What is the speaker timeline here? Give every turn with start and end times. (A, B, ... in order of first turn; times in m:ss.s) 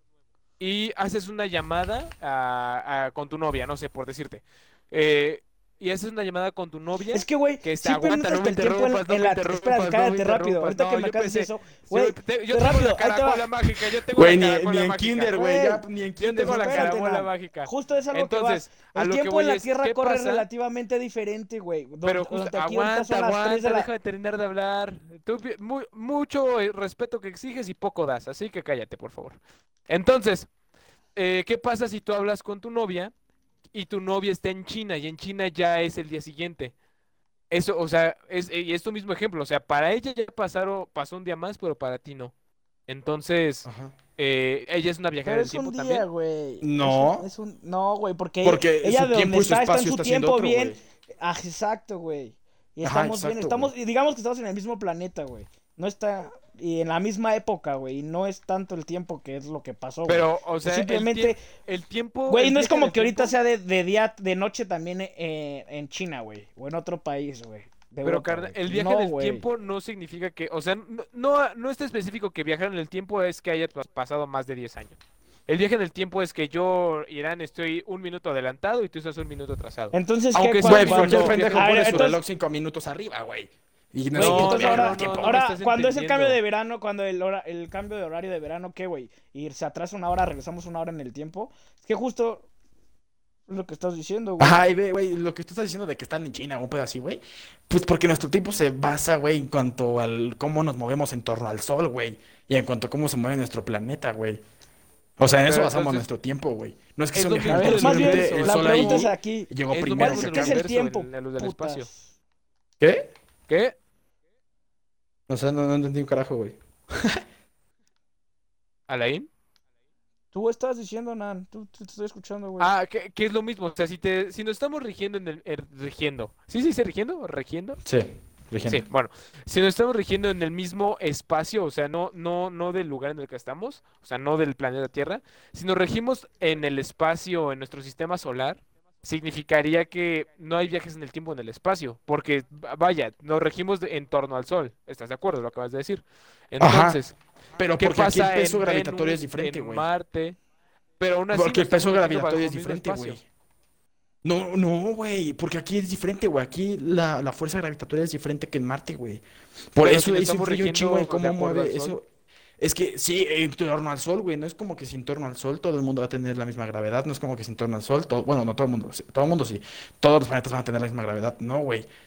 0:00.6-0:15.5 A
0:07.1-0:13.5 B
0:14.1-0:17.0 C
0:15.4-0:15.8 B
0:16.2-0:20.4 A
0:16.4-0:23.9 B
0:22.0-0:30.5 A
0:31.2-0:33.1 A
0:33.7-0:36.7 A
0:37.5-0:42.3 A
0:42.9-0:43.7 A
0:43.6-0:43.9 C
0:44.2-0:46.0 A
0:45.2-1:01.4 B
0:46.6-0:47.3 C
0:48.4-0:50.8 C
0:52.8-0:53.7 C
1:00.0-1:03.3 A
1:02.3-1:09.4 B
1:08.0-1:22.1 A
1:19.9-1:22.2 B
1:20.6-1:25.4 C
1:24.1-1:26.4 A
1:24.1-1:32.5 B
1:33.5-1:34.6 B
1:34.4-1:44.4 C
1:45.2-1:50.6 C
1:45.4-1:46.0 A
1:47.1-1:49.1 A
1:47.5-1:52.0 B
1:49.7-1:51.9 A
1:52.8-1:53.1 C
1:53.5-1:53.8 A
1:55.3-1:57.2 C
1:58.9-1:59.3 A
2:00.3-2:02.7 B
2:02.6-2:07.8 A
2:07.8-2:08.9 C
2:08.6-2:27.1 A
2:26.6-2:27.0 C
2:27.6-2:29.8 C
2:27.8-2:30.4 A
2:31.0-2:33.2 A
2:31.3-2:33.2 C
2:34.2-2:39.2 C
2:39.7-2:42.0 C
2:39.8-2:42.0 A
2:42.6-2:51.9 C